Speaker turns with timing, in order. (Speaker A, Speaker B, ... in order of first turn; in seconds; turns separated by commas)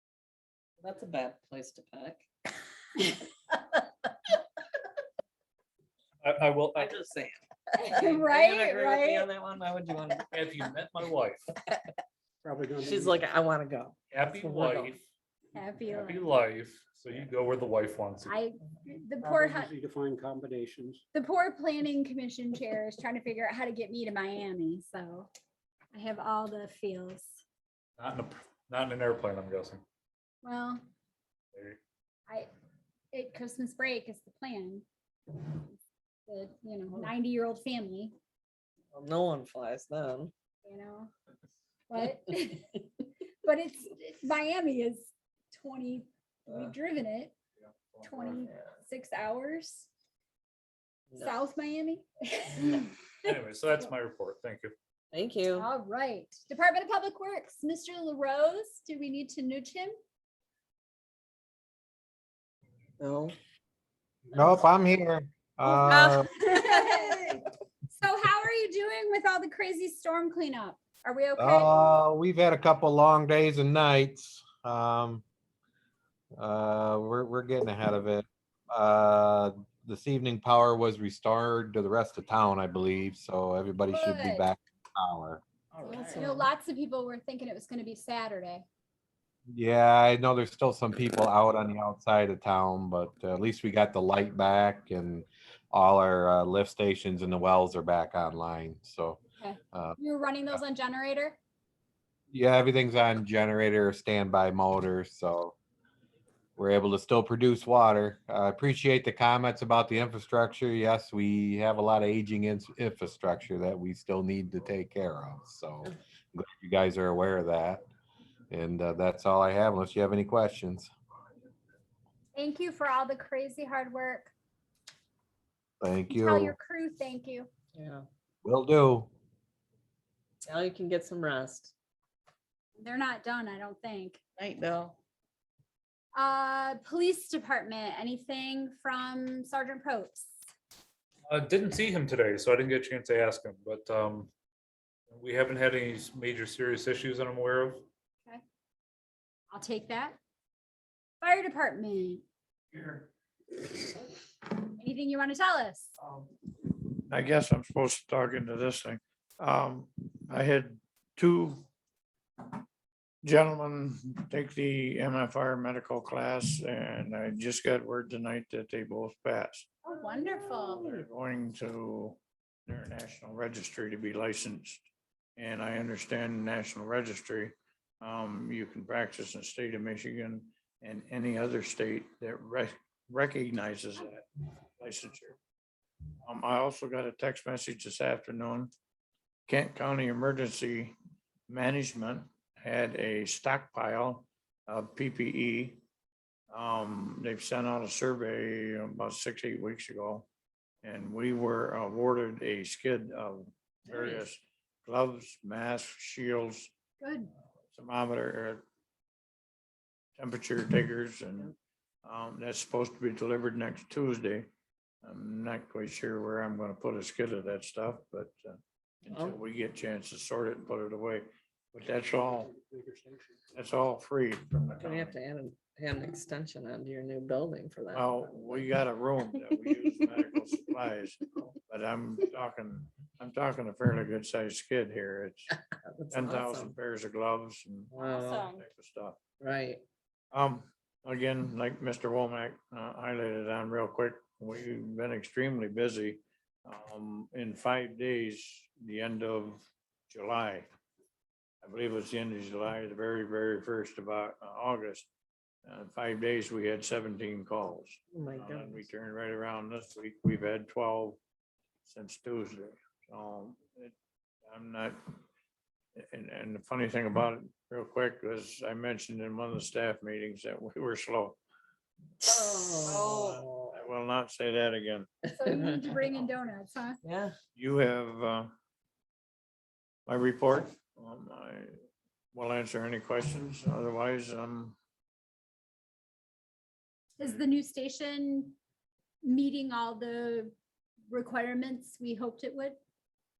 Speaker A: 0.8-2.2, Speaker B: 6.2-7.0, Speaker A: 6.8-10.6, Speaker C: 7.7-9.3, Speaker B: 10.3-11.4, Speaker D: 12.4-13.2, Speaker A: 12.8-15.0, Speaker B: 14.1-15.0, Speaker C: 15.5-16.3, Speaker B: 15.9-18.3, Speaker C: 18.2-19.7, Speaker D: 19.2-21.0, Speaker C: 21.1-25.3, Speaker C: 25.9-27.4, Speaker B: 28.0-29.8, Speaker C: 30.4-30.8, Speaker B: 31.5-31.8, Speaker C: 33.1-34.8, Speaker C: 36.3-38.1, Speaker A: 38.9-40.3, Speaker C: 40.6-41.1, Speaker C: 41.9-42.8, Speaker C: 43.4-47.3, Speaker A: 46.5-46.7, Speaker C: 48.0-49.9, Speaker C: 51.2-53.9, Speaker B: 53.3-54.7, Speaker A: 55.1-55.7, Speaker C: 55.5-59.9, Speaker A: 63.0-63.3, Speaker E: 64.3-66.3, Speaker A: 65.8-67.3, Speaker C: 65.9-67.4, Speaker C: 67.9-71.8, Speaker E: 71.4-75.2, Speaker E: 76.3-85.4, Speaker C: 83.9-84.5, Speaker A: 85.7-86.5, Speaker C: 85.8-88.7, Speaker E: 89.5-99.2, Speaker C: 99.4-101.4, Speaker E: 102.3-105.5, Speaker E: 106.6-117.8, Speaker E: 118.5-120.9, Speaker C: 122.3-124.3, Speaker E: 125.8-126.5, Speaker C: 126.1-127.5, Speaker A: 127.7-128.0, Speaker E: 128.4-129.1, Speaker A: 130.4-131.7, Speaker C: 132.8-134.2, Speaker A: 134.4-134.9, Speaker C: 136.1-140.3, Speaker B: 141.3-144.3, Speaker B: 145.1-147.9, Speaker C: 149.5-150.2, Speaker C: 151.2-152.2, Speaker F: 152.7-153.0, Speaker C: 154.8-155.9, Speaker F: 156.0-156.3, Speaker F: 157.1-161.6, Speaker F: 163.2-169.7, Speaker C: 169.8-171.0, Speaker F: 170.6-184.2, Speaker F: 184.8-185.4, Speaker F: 186.2-188.7, Speaker F: 189.5-190.9, Speaker F: 191.5-195.8, Speaker F: 196.5-200.3, Speaker F: 200.8-206.7, Speaker A: 203.9-204.2, Speaker C: 207.0-207.3, Speaker F: 207.7-208.6, Speaker F: 210.2-211.5, Speaker F: 212.0-214.5, Speaker F: 215.0-222.5, Speaker A: 219.1-219.4, Speaker D: 222.4-223.4, Speaker F: 223.5-225.2, Speaker A: 224.8-228.8, Speaker F: 227.9-235.5, Speaker A: 235.8-236.7, Speaker F: 236.1-239.2, Speaker A: 237.9-238.5, Speaker C: 238.1-238.3, Speaker A: 239.4-239.8, Speaker F: 240.3-250.7, Speaker F: 251.6-255.1, Speaker F: 255.6-261.2, Speaker A: 258.1-258.8, Speaker F: 261.9-263.9, Speaker F: 264.4-265.0, Speaker F: 265.9-271.4, Speaker A: 272.2-273.7, Speaker F: 272.8-275.1, Speaker C: 275.4-277.0, Speaker A: 275.4-275.8, Speaker A: 277.0-277.3, Speaker F: 277.5-278.5, Speaker F: 280.1-281.7, Speaker F: 282.3-284.8, Speaker C: 287.2-288.5, Speaker C: 289.2-290.5, Speaker C: 291.1-292.8